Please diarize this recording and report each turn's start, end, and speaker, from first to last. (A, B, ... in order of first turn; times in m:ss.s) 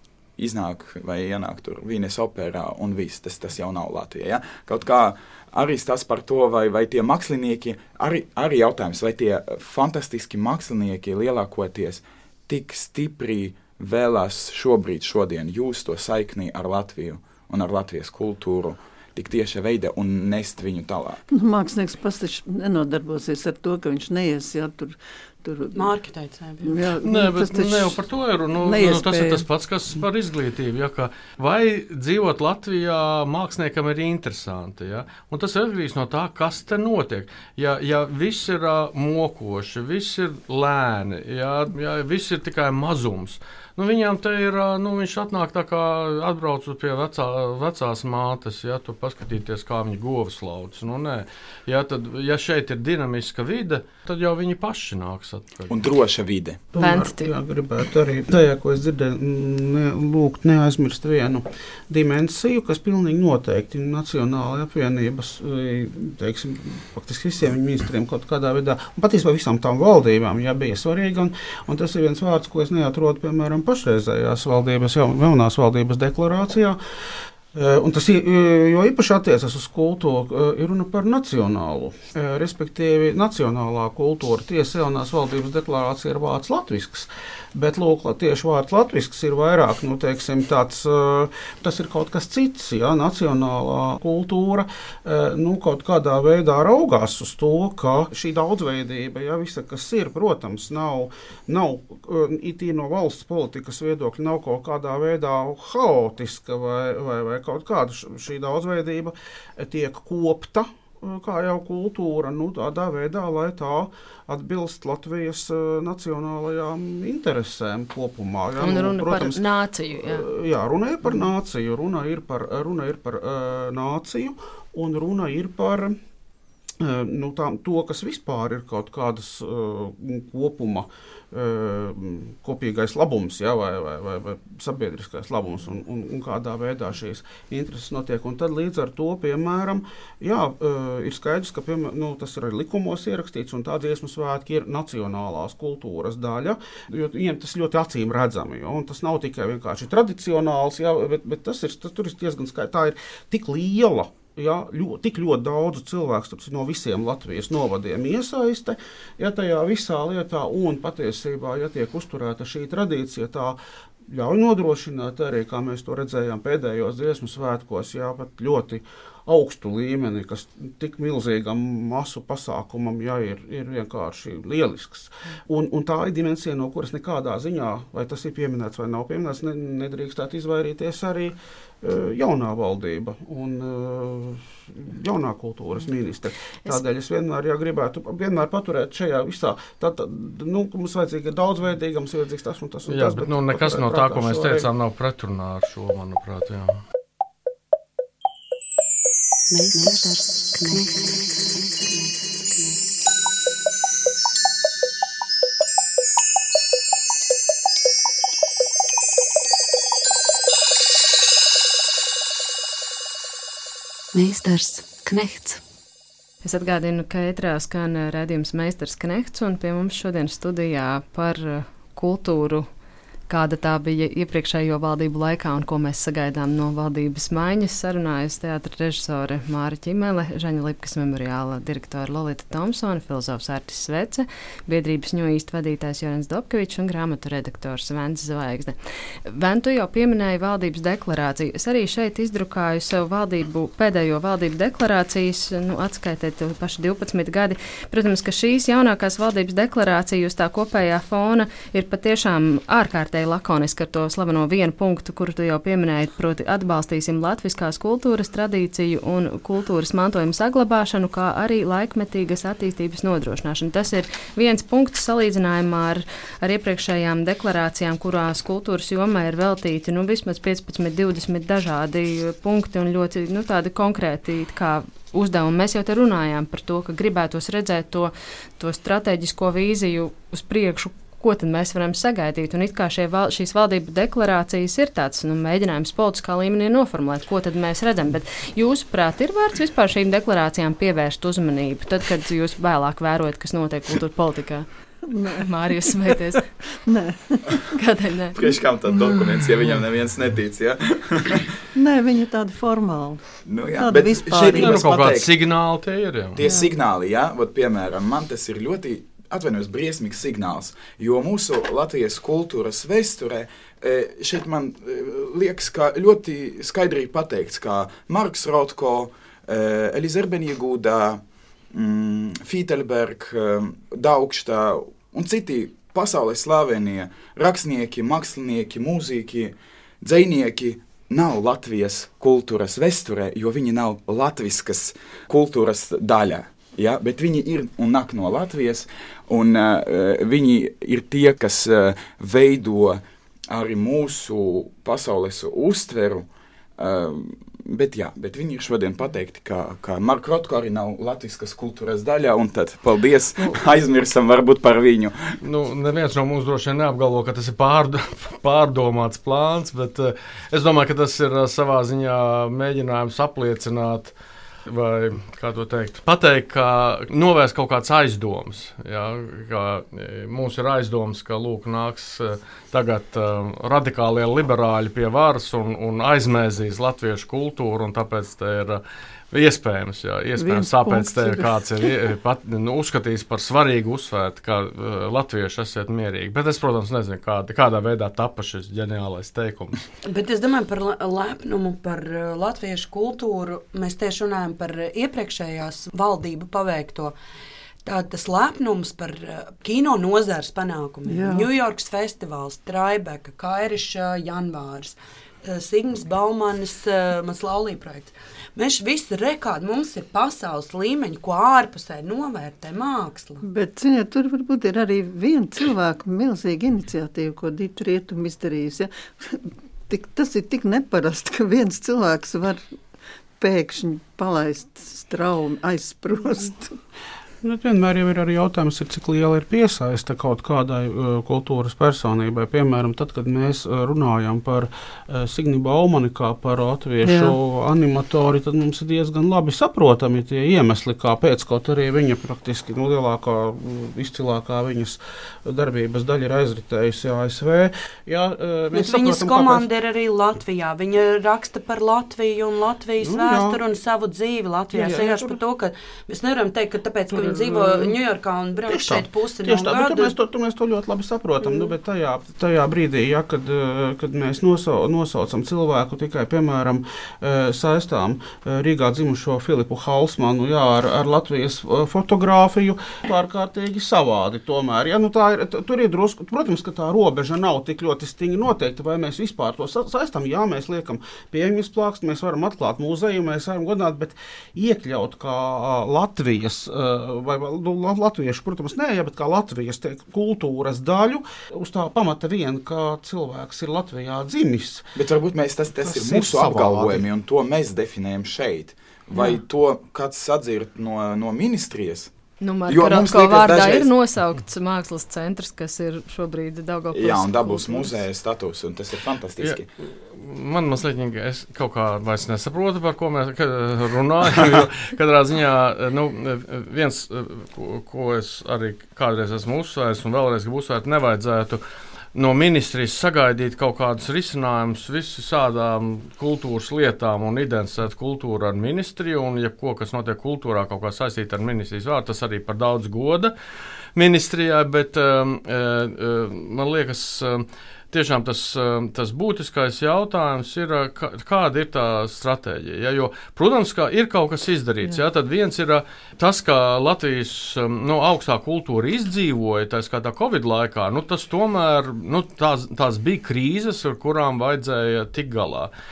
0:00.4-0:21.2 A
0:21.3-0:25.9 B
0:25.7-0:26.8 C
0:26.6-0:28.0 B
0:27.0-0:55.8 D
0:28.6-0:29.4 B
0:55.7-0:56.6 A
0:56.7-1:16.8 E
0:56.8-0:57.3 F
1:17.5-1:59.4 E
1:58.6-2:00.2 F
2:00.0-2:06.0 E
2:06.8-2:43.6 E
2:44.1-3:14.7 E
3:12.9-3:16.8 D
3:19.5-3:22.1 F
3:34.1-3:35.6 F
3:36.4-3:42.7 F
3:43.3-4:54.6 F
4:55.1-4:56.1 B
4:55.2-4:56.5 F
4:56.8-4:57.8 B
4:57.7-4:58.4 F
4:58.3-5:01.5 A
5:01.7-5:03.2 B
5:03.4-5:05.3 A
5:03.8-5:04.8 B
5:04.4-5:06.4 D
5:06.4-5:21.2 A
5:21.7-5:46.3 A
5:46.8-5:55.4 A
5:55.4-6:04.1 D
6:04.6-6:18.8 D
6:19.3-6:29.8 D
6:20.4-6:21.9 B
6:30.0-6:37.2 C
6:37.8-6:53.4 C
6:41.1-6:41.5 B
6:53.4-7:02.6 B
7:03.4-7:06.8 B
7:07.4-7:29.6 E
7:17.0-7:17.4 B
7:28.7-7:40.1 C
7:33.0-7:33.6 E
7:34.7-7:35.4 E
7:37.1-7:37.9 E
7:38.7-8:14.9 E
7:41.4-7:41.7 C
8:14.9-8:22.1 A
8:15.8-8:17.0 E
8:22.4-8:27.9 F
8:22.7-8:23.9 A
8:26.9-8:29.6 A
8:29.4-8:41.6 D
8:42.1-8:53.3 D
8:53.9-9:15.7 D